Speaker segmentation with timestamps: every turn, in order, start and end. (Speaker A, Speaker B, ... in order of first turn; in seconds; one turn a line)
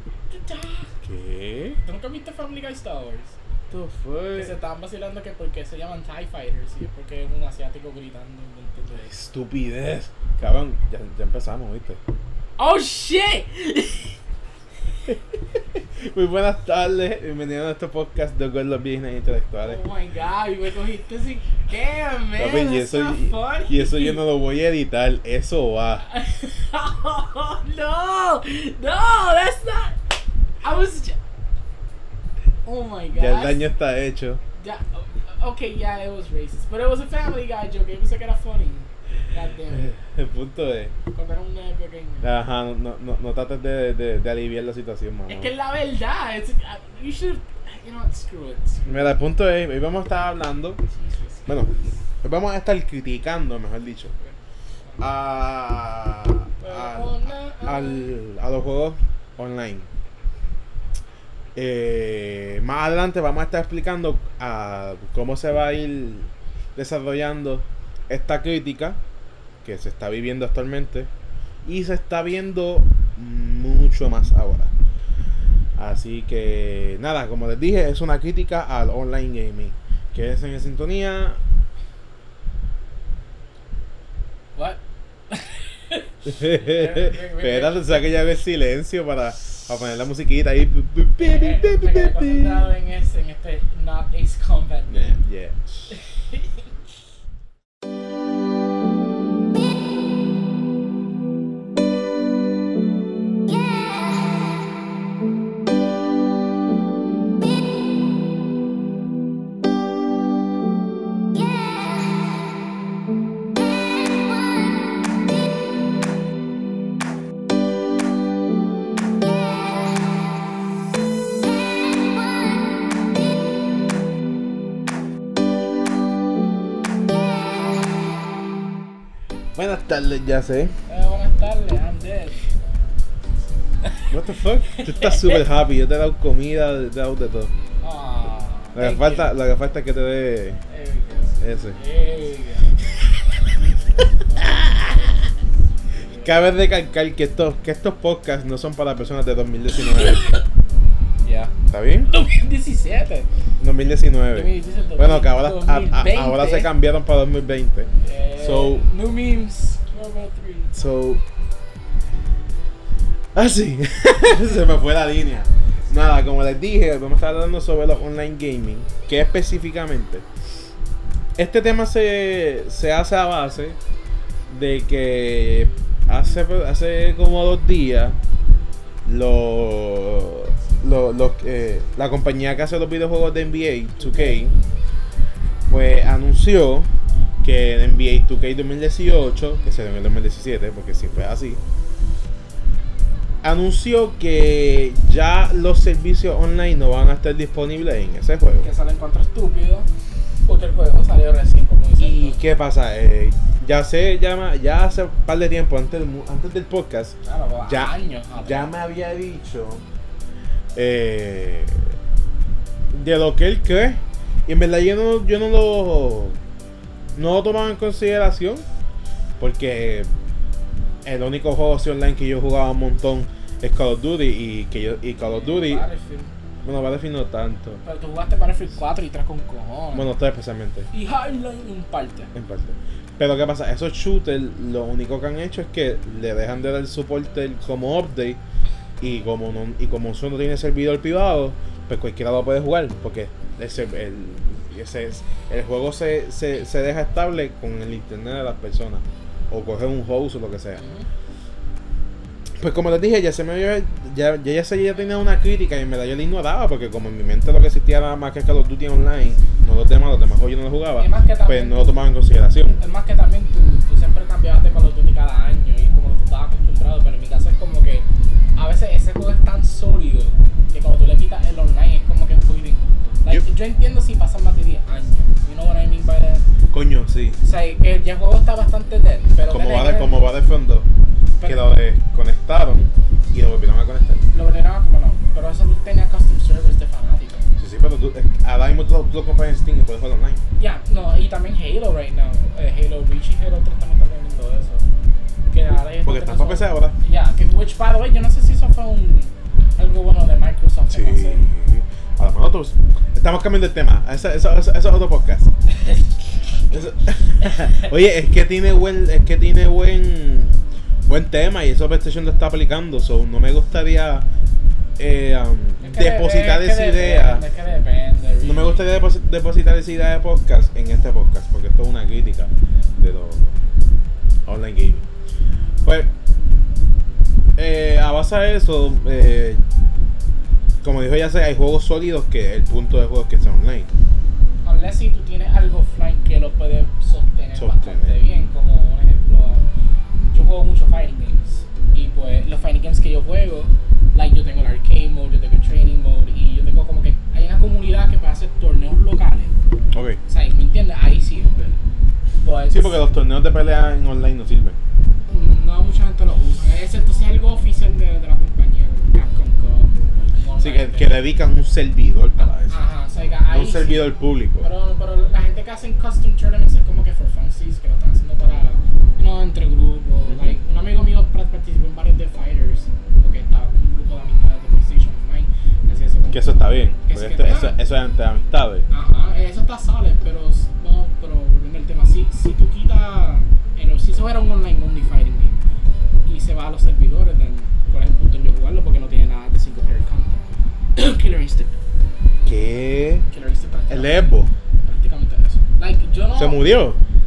Speaker A: 0.3-0.9
Speaker B: 1.0-1.8
Speaker A: 1.8-3.4
Speaker B: 3.7-4.5
Speaker A: 4.3-9.1
Speaker B: 9.1-12.0
Speaker A: 12.6-14.2
Speaker B: 15.1-19.8
Speaker A: 19.6-24.2
Speaker B: 22.4-26.1
Speaker A: 26.1-30.0
Speaker A: 30.6-31.2
Speaker A: 32.6-33.6
Speaker B: 33.2-34.4
Speaker A: 34.6-40.0
Speaker B: 39.7-40.9
Speaker A: 41.1-42.3
Speaker B: 42.2-45.5
Speaker A: 45.3-49.1
Speaker B: 48.9-50.8
Speaker A: 50.9-51.6
Speaker B: 51.5-54.1
Speaker B: 55.0-59.9
Speaker A: 56.6-58.1
Speaker B: 61.5-69.0
Speaker B: 69.6-71.1
Speaker B: 71.6-74.7
Speaker B: 75.8-81.4
Speaker A: 84.5-88.1
Speaker B: 86.2-92.7
Speaker A: 91.2-95.2
Speaker B: 94.9-95.9
Speaker A: 95.9-96.5
Speaker B: 129.6-130.8
Speaker A: 130.9-132.5
Speaker B: 134.1-137.5
Speaker A: 134.7-135.4
Speaker A: 137.8-139.3
Speaker B: 138.7-140.6
Speaker A: 140.7-142.8
Speaker B: 141.4-141.8
Speaker A: 143.5-145.3
Speaker B: 144.4-145.0
Speaker A: 145.9-146.4
Speaker B: 146.2-150.3
Speaker A: 151.2-151.5
Speaker B: 151.7-152.1
Speaker A: 152.1-153.3
Speaker B: 153.6-158.9
Speaker A: 154.3-156.7
Speaker A: 158.0-160.7
Speaker B: 160.7-161.2
Speaker B: 163.3-170.2
Speaker B: 171.4-173.8
Speaker B: 174.5-178.2
Speaker B: 179.0-184.6
Speaker A: 184.0-184.5
Speaker B: 185.7-186.9
Speaker B: 187.4-191.6
Speaker B: 193.4-198.7
Speaker A: 198.6-199.9
Speaker A: 200.4-202.4
Speaker B: 202.0-209.8
Speaker A: 207.2-208.7
Speaker B: 210.7-211.9
Speaker B: 212.9-216.4
Speaker B: 217.1-218.7
Speaker B: 219.4-220.1
Speaker B: 221.0-225.8
Speaker A: 225.2-226.3
Speaker B: 226.6-227.8
Speaker A: 227.8-230.1
Speaker B: 229.9-230.9
Speaker A: 230.9-232.3
Speaker B: 232.3-238.4
Speaker B: 239.0-250.8
Speaker A: 250.8-251.1
Speaker B: 252.6-262.8
Speaker A: 261.0-262.1
Speaker A: 262.8-276.4
Speaker B: 276.7-277.4
Speaker A: 277.4-280.2
Speaker B: 279.4-280.9
Speaker B: 281.4-284.3
Speaker A: 284.3-287.5
Speaker B: 287.6-290.4
Speaker A: 290.6-294.9
Speaker A: 295.5-301.5
Speaker B: 296.0-297.0
Speaker B: 300.9-305.5
Speaker A: 305.7-307.9
Speaker B: 306.7-314.3
Speaker B: 315.0-317.4
Speaker A: 315.8-318.9
Speaker B: 318.4-323.6
Speaker B: 324.4-325.1
Speaker B: 325.8-326.1
Speaker B: 327.5-329.6
Speaker B: 330.8-333.9
Speaker A: 334.6-339.7
Speaker B: 337.5-338.1
Speaker A: 340.3-349.6
Speaker B: 349.9-350.2
Speaker A: 350.3-351.8
Speaker A: 352.4-353.0
Speaker B: 352.7-354.8
Speaker A: 355.3-361.2
Speaker B: 360.6-362.8
Speaker A: 362.7-377.8
Speaker B: 363.5-364.7
Speaker B: 370.3-370.6
Speaker B: 376.3-378.9
Speaker A: 378.9-385.6
Speaker A: 386.2-391.8
Speaker B: 392.4-393.3
Speaker A: 393.3-396.6
Speaker B: 393.9-394.5
Speaker B: 396.3-397.0